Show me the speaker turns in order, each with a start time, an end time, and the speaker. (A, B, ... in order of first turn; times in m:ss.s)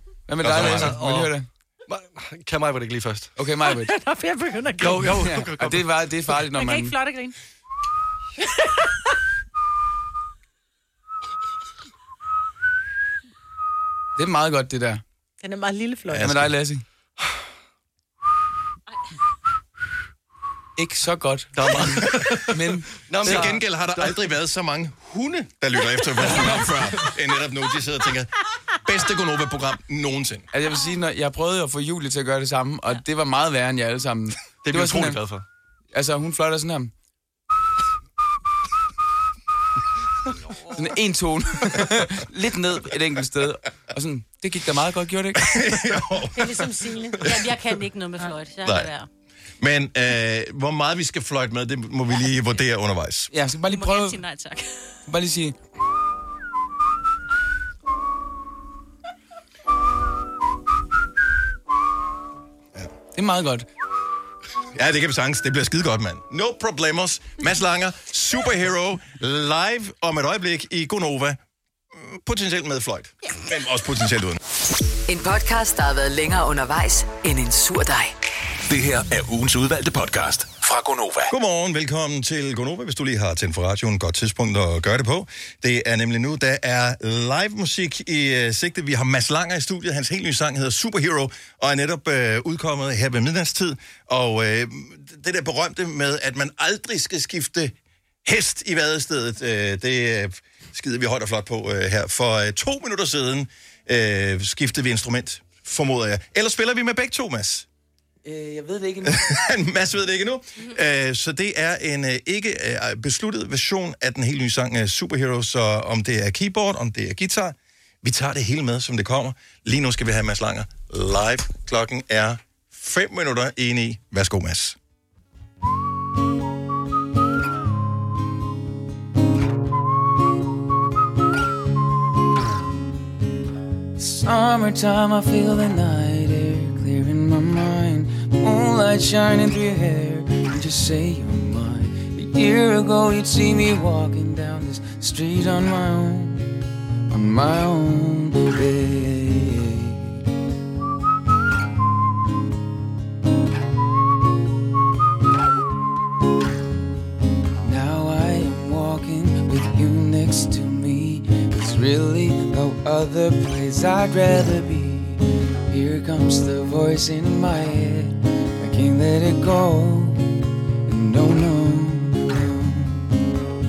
0:00.3-0:01.5 A
0:00.4-0:01.0 B
0:00.4-0:01.3 C
0:01.9-0:03.3 C
0:03.4-0:03.9 A
0:03.7-0:05.2 D
0:04.8-0:05.9 C
0:05.1-0:07.0 A
0:06.5-0:07.3 D
0:14.2-0:15.0 A
0:15.4-0:16.4 D
0:16.1-0:16.6 B
0:16.1-0:16.8 A
0:20.8-0:23.5 A
0:21.6-0:22.5 C
0:21.7-0:22.3 B
0:23.0-0:24.2 C
0:23.2-0:28.3 B
0:26.2-0:26.7 C
0:28.8-0:30.4 B
0:30.5-0:35.3 A
0:34.6-0:35.4 C
0:35.9-0:36.9 A
0:40.7-0:45.4 A
0:45.4-0:46.6 B
0:46.3-0:47.3 D
0:47.2-0:49.1 E
0:48.6-0:48.9 B
0:49.6-0:53.3 B
0:53.3-0:54.2 A
0:53.6-0:54.9 E
0:55.1-0:55.5 A
1:03.1-1:03.7 A
1:04.7-1:11.4 B
1:11.9-1:14.4 B
1:15.1-1:18.1 F
1:18.7-1:21.3 G
1:21.3-1:47.7 B
1:48.2-1:49.2 A
1:49.0-2:04.8 B
2:14.0-2:26.5 A
2:27.1-2:30.2 A
2:37.6-2:50.2 A
2:50.9-2:53.0 A